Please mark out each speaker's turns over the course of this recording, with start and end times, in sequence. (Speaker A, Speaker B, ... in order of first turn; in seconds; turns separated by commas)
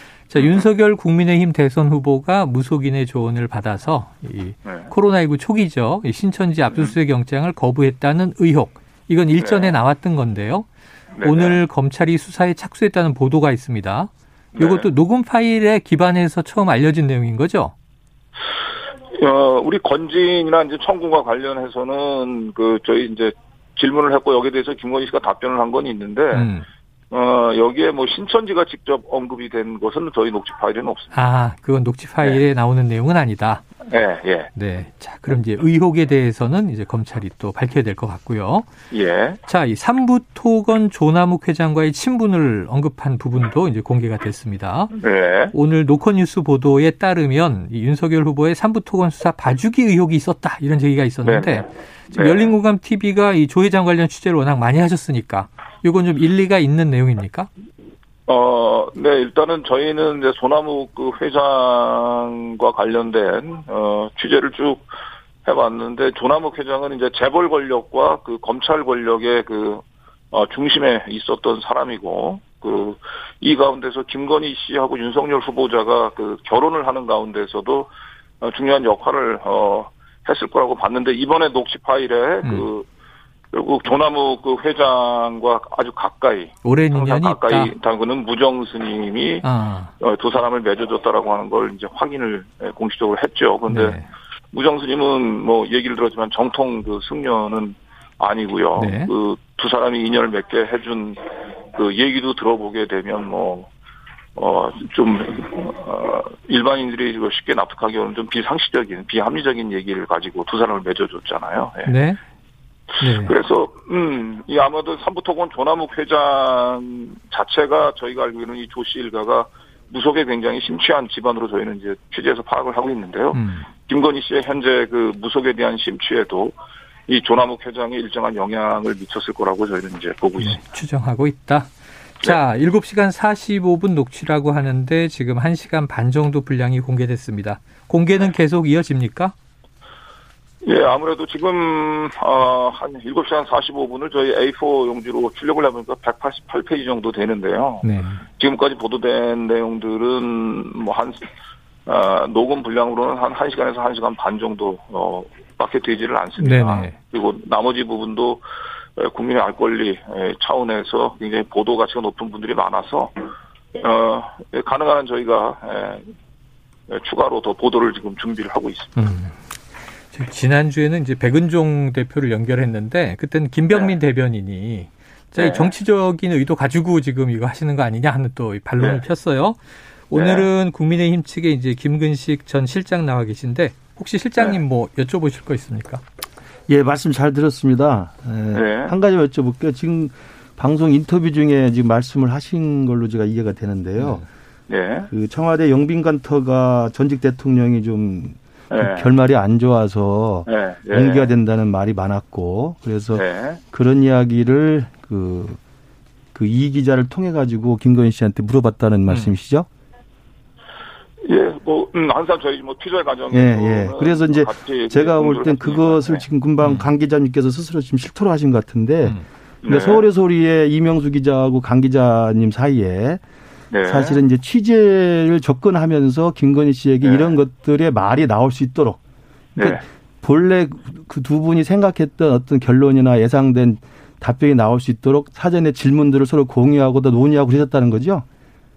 Speaker A: 0.3-10.7, Speaker B: 9.4-9.7, Speaker B: 11.2-11.6, Speaker A: 11.2-17.7, Speaker B: 14.6-14.8, Speaker B: 19.2-26.5, Speaker A: 26.3-26.6, Speaker B: 27.1-31.1, Speaker A: 31.1-33.6, Speaker B: 33.9-34.5, Speaker A: 34.5-38.7, Speaker B: 38.9-39.4, Speaker A: 39.5-44.9, Speaker B: 45.0-45.5, Speaker A: 45.5-57.5, Speaker B: 51.2-52.5, Speaker B: 58.3-64.9, Speaker B: 65.4-77.9, Speaker B: 78.4-82.8, Speaker B: 83.5-89.5, Speaker A: 86.6-87.7, Speaker A: 89.4-89.9, Speaker B: 90.0-94.0, Speaker A: 93.7-94.1, Speaker B: 94.5-101.2, Speaker A: 98.8-99.1, Speaker B: 101.7-103.7, Speaker B: 104.3-111.9, Speaker A: 111.8-112.2, Speaker A: 113.0-113.3, Speaker B: 113.2-126.5, Speaker A: 123.3-123.7, Speaker B: 127.1-130.6, Speaker A: 130.4-139.3, Speaker B: 140.6-147.8, Speaker A: 147.8-148.2, Speaker B: 148.4-151.3, Speaker B: 151.9-158.4, Speaker A: 156.4-156.9, Speaker B: 159.0-163.2, Speaker B: 163.7-166.1, Speaker B: 166.9-168.9, Speaker A: 168.9-169.3, Speaker A: 170.1-179.6, Speaker B: 175.4-175.7, Speaker A: 180.1-186.0, Speaker B: 180.1-180.5, Speaker C: 186.7-194.2, Speaker B: 188.5-188.9, Speaker B: 194.7-195.1, Speaker C: 195.1-205.6, Speaker B: 198.7-199.1, Speaker B: 200.5-201.3, Speaker B: 203.1-203.6, Speaker C: 206.3-209.7, Speaker A: 209.1-209.3, Speaker B: 211.2-216.2, Speaker C: 213.3-223.2, Speaker A: 216.6-216.9, Speaker B: 219.6-220.0, Speaker B: 223.7-224.2, Speaker C: 223.8-229.0, Speaker B: 227.0-227.3, Speaker B: 229.6-229.8, Speaker C: 229.6-238.2